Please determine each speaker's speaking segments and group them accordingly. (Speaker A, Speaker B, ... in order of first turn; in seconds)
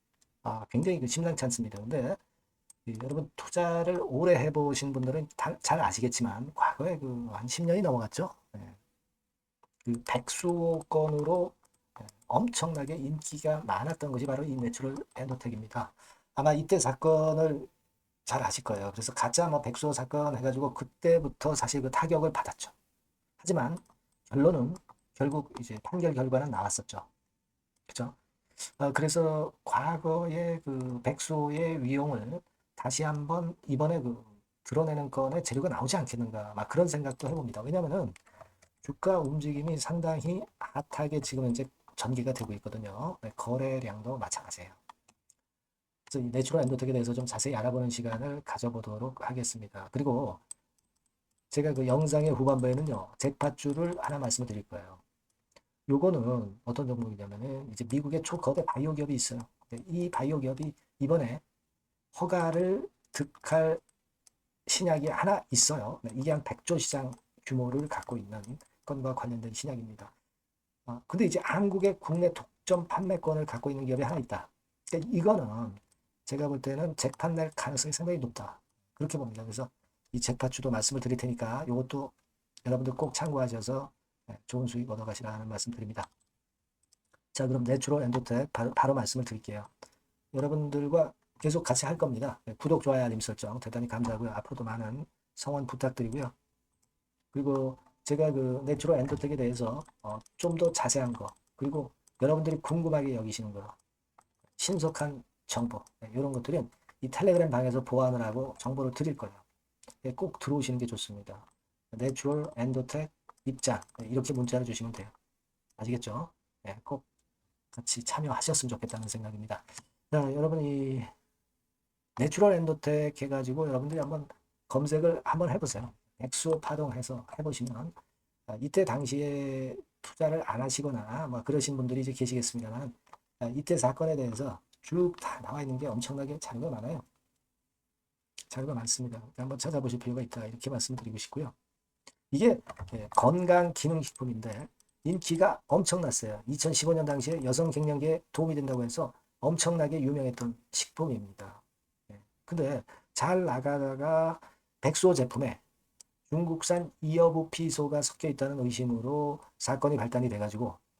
Speaker A: 0.4-2.2, 2.9-8.8, 9.8-17.7, 18.2-22.7, 23.4-27.1, 27.9-28.2, 28.8-38.2, 38.8-44.8, 46.1-50.4, 51.5-55.0, 55.9-61.4, 62.1-63.8, 64.7-70.1, 70.9-82.1, 82.6-86.1, 87.3-89.7, 90.3-96.3, 97.3-103.8, 104.6-109.4, 110.0-115.1, 115.8-117.0, 117.7-121.1, 122.2-128.0, 128.5-137.0, 138.5-141.5, 142.3-155.6, 156.3-160.8